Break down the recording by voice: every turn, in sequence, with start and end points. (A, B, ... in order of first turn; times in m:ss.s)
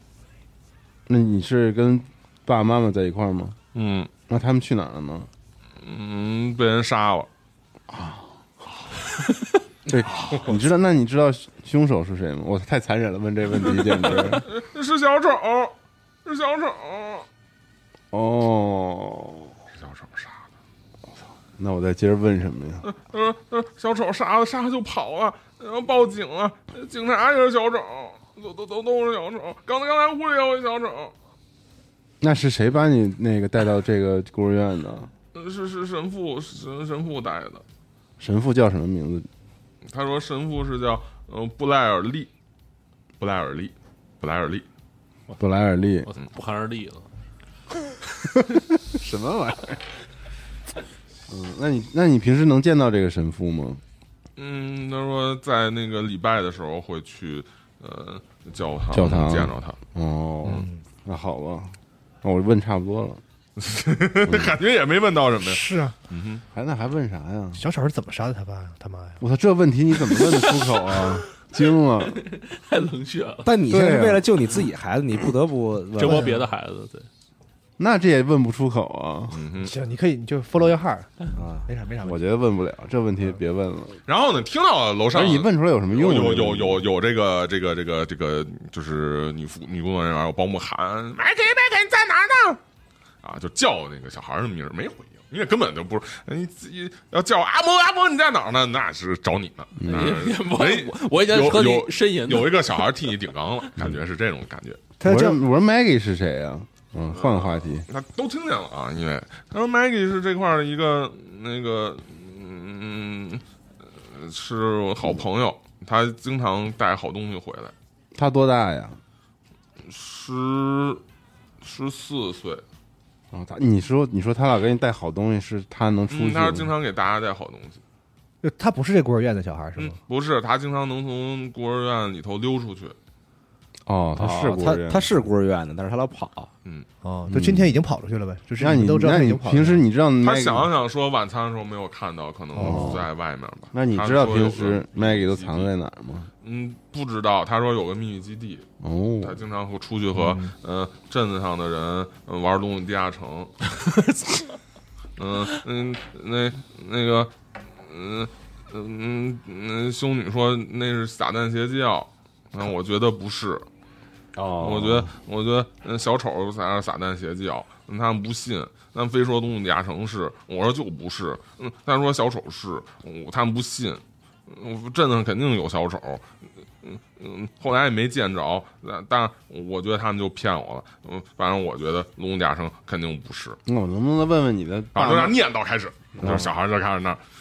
0:01.1-0:03.6 A
0:03.7-0:04.1 B
0:04.3-0:05.3 A
0:05.8-0:07.3 B
0:07.9-0:08.2 A
0:09.9-0:14.5 A
0:10.2-0:10.5 B
0:13.6-0:15.7 B
0:16.2-0:17.2 B
0:18.1-0:19.5 A
0:19.8-0:20.4 B
0:21.6-0:22.9 A
0:22.8-0:31.1 B
0:32.2-0:35.1 A
0:35.3-0:37.6 B
0:38.2-0:39.3 A
0:39.9-0:42.3 B
0:43.2-0:44.6 B
0:45.4-0:46.1 A
0:46.1-0:47.1 C
0:48.9-0:49.8 A
0:51.3-0:53.8 A
0:54.4-0:59.8 B
0:58.9-1:03.2 A
1:00.5-1:00.8 D
1:03.6-1:06.4 B
1:04.3-1:04.5 A
1:05.4-1:06.0 D
1:06.5-1:07.6 A
1:07.6-1:09.2 D
1:09.2-1:12.2 A
1:12.2-1:13.5 C
1:13.4-1:16.3 E
1:13.7-1:14.2 A
1:16.0-1:17.1 C
1:16.0-1:16.3 D
1:17.8-1:19.4 A
1:19.3-1:19.7 B
1:19.6-1:21.1 D
1:21.4-1:21.6 E
1:21.6-1:22.2 D
1:22.0-1:24.0 A
1:24.1-1:32.6 B
1:25.1-1:26.9 A
1:33.2-1:44.8 B
1:39.8-1:40.1 A
1:39.9-1:42.8 C
1:45.0-1:45.4 D
1:45.0-1:47.9 A
1:47.1-1:53.4 B
1:54.0-1:57.7 B
1:58.2-1:59.0 A
1:59.8-2:01.0 B
2:01.6-2:02.6 B
2:03.3-2:06.7 A
2:06.1-2:07.8 B
2:08.4-2:10.0 D
2:09.8-2:13.0 B
2:13.9-2:15.1 A
2:14.2-2:16.5 E
2:17.0-2:19.8 D
2:17.3-2:17.7 A
2:18.6-2:20.7 A
2:20.2-2:25.7 B
2:22.6-2:23.0 D
2:22.6-2:23.1 A
2:23.7-2:26.3 A
2:26.4-2:28.7 B
2:28.8-2:29.4 A
2:29.2-2:33.5 B
2:33.9-2:34.4 C
2:35.2-2:37.3 B
2:37.8-2:43.6 B
2:44.4-2:45.1 A
2:44.6-2:56.2 B
2:56.8-3:03.6 B
3:03.7-3:05.4 A
3:05.0-3:07.2 B
3:06.2-3:06.5 A